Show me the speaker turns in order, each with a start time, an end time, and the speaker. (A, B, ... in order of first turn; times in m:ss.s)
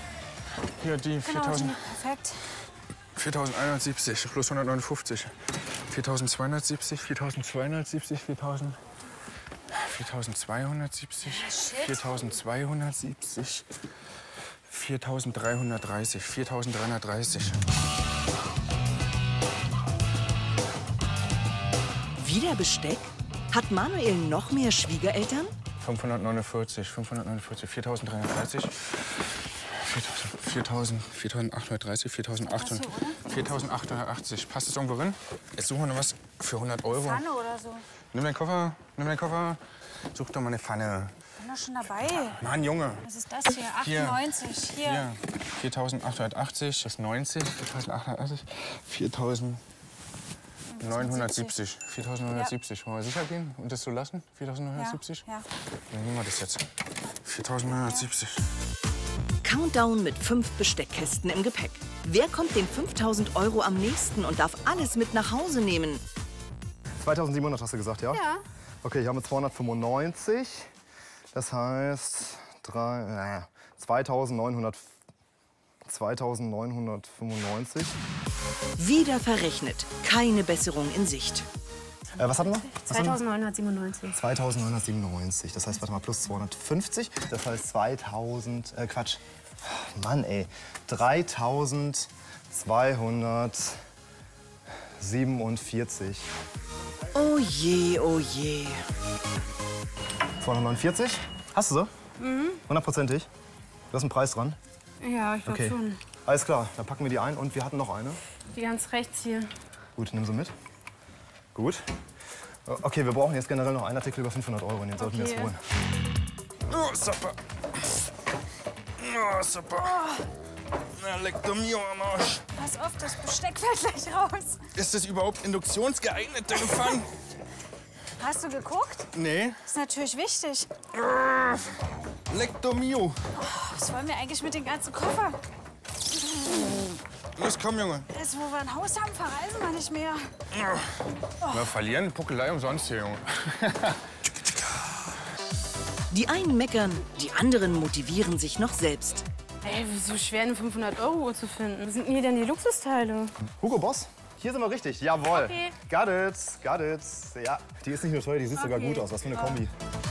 0:00.8-0:01.9 A
0:01.2-0:02.4 B
0:03.2-0:08.8 A
0:09.7-0:13.7 A
0:11.2-0:12.2 B
0:14.7-0:17.6 A
0:22.2-0:25.5 C
0:25.8-0:37.2 A
0:32.5-0:33.4 B
0:36.9-0:37.8 B
0:38.1-0:39.6 A
0:40.1-0:41.2 A
0:41.4-0:42.4 B
0:42.4-0:43.1 A
0:43.0-0:45.1 B
0:43.7-0:44.2 A
0:44.8-0:49.6 A
0:50.7-0:51.5 B
0:50.8-0:55.2 A
0:54.8-0:55.5 B
0:55.9-0:56.6 A
0:57.2-0:58.4 A
0:59.4-1:06.0 C
1:07.0-1:08.2 D
1:08.1-1:08.4 E
1:08.8-1:10.7 D
1:11.3-1:14.9 D
1:15.8-1:18.0 D
1:18.8-1:21.4 C
1:22.2-1:23.2 D
1:22.8-1:24.2 E
1:24.1-1:33.8 D
1:35.0-1:36.3 D
1:37.1-1:38.8 C
1:40.4-1:41.9 D
1:42.2-1:42.6 E
1:42.7-1:43.3 D
1:43.9-1:44.6 D
1:45.0-1:46.0 E
1:45.4-1:48.2 D
1:48.5-1:49.5 E
1:50.0-1:50.5 D
1:51.5-1:51.8 D
1:52.6-1:55.6 D
1:55.0-1:55.5 E
1:56.7-1:57.4 A
1:59.0-2:00.2 A
2:00.0-2:00.2 B
2:00.9-2:02.4 A
2:02.5-2:04.6 B
2:04.7-2:07.2 A
2:08.2-2:09.1 B
2:09.1-2:09.6 A
2:09.6-2:10.7 B
2:10.9-2:13.2 A
2:13.4-2:15.4 B
2:16.4-2:16.9 B
2:17.3-2:18.1 A
2:18.1-2:20.3 B
2:20.5-2:21.0 A
2:21.4-2:21.7 B
2:21.5-2:24.9 A
2:26.1-2:29.2 C
2:29.6-2:33.3 E
2:33.4-2:39.7 D
2:35.3-2:35.7 E
2:38.6-2:39.6 E